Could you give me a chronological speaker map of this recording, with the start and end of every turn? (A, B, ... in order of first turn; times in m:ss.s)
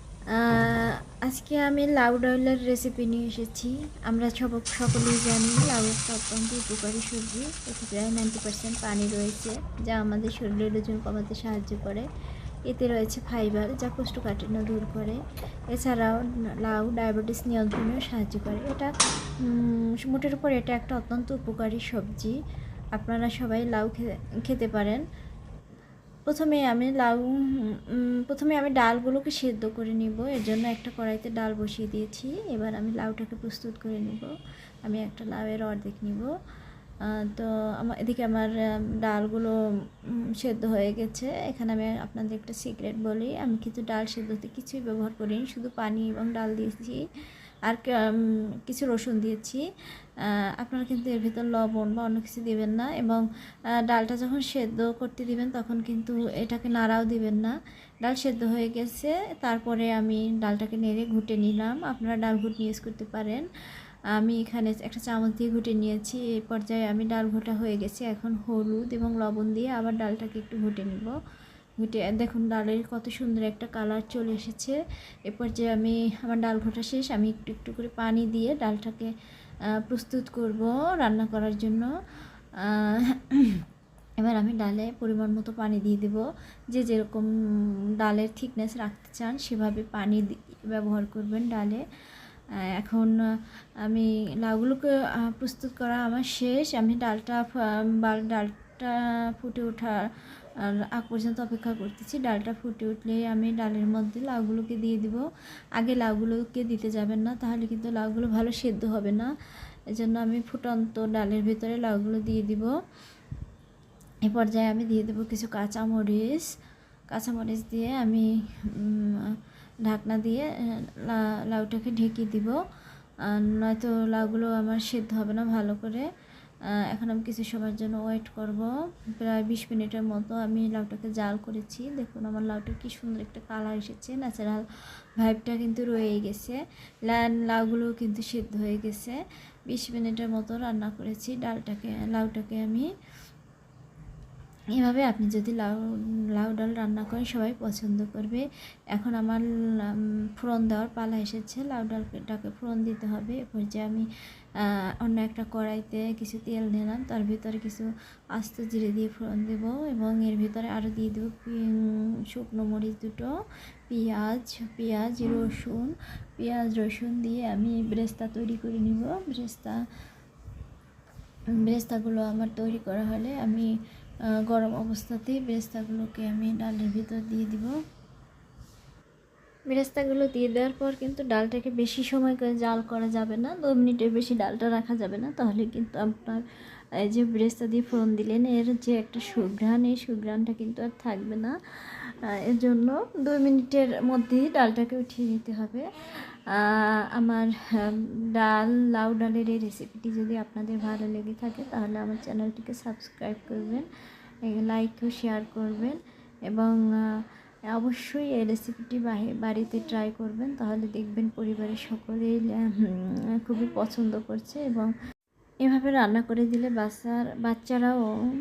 0:00.3-0:12.1 A
0:12.7-0:15.2 A
0:15.7-0:22.4 A
0:23.0-0:25.0 A
0:26.3-0:34.3 A
0:34.8-0:36.3 A
0:37.1-0:39.5 A
0:40.4-0:47.0 A
0:47.7-0:49.6 A
0:50.6-0:53.2 A
0:53.9-0:57.5 A
0:58.0-1:03.4 A
1:04.1-1:11.1 A
1:11.8-1:19.1 A
1:19.8-1:21.9 A
1:22.6-1:23.6 A
1:24.2-1:31.8 A
1:32.7-1:33.2 A
1:33.8-1:40.0 A
1:40.6-1:45.2 A
1:45.8-1:49.3 A
1:50.0-1:52.7 A
1:54.3-1:56.5 A
1:57.1-1:59.3 A
1:59.9-2:00.4 A
2:01.0-2:02.6 A
2:03.2-2:06.1 A
2:06.9-2:14.6 A
2:15.2-2:19.2 A
2:19.7-2:22.9 A
2:24.8-2:34.1 A
2:34.6-2:43.3 A
2:43.9-2:49.8 A
2:51.6-2:53.7 A
2:54.5-2:57.8 A
2:59.7-3:06.4 A
3:07.0-3:15.9 A
3:16.5-3:23.9 A
3:24.5-3:26.0 A
3:26.5-3:34.9 A
3:35.6-3:38.0 A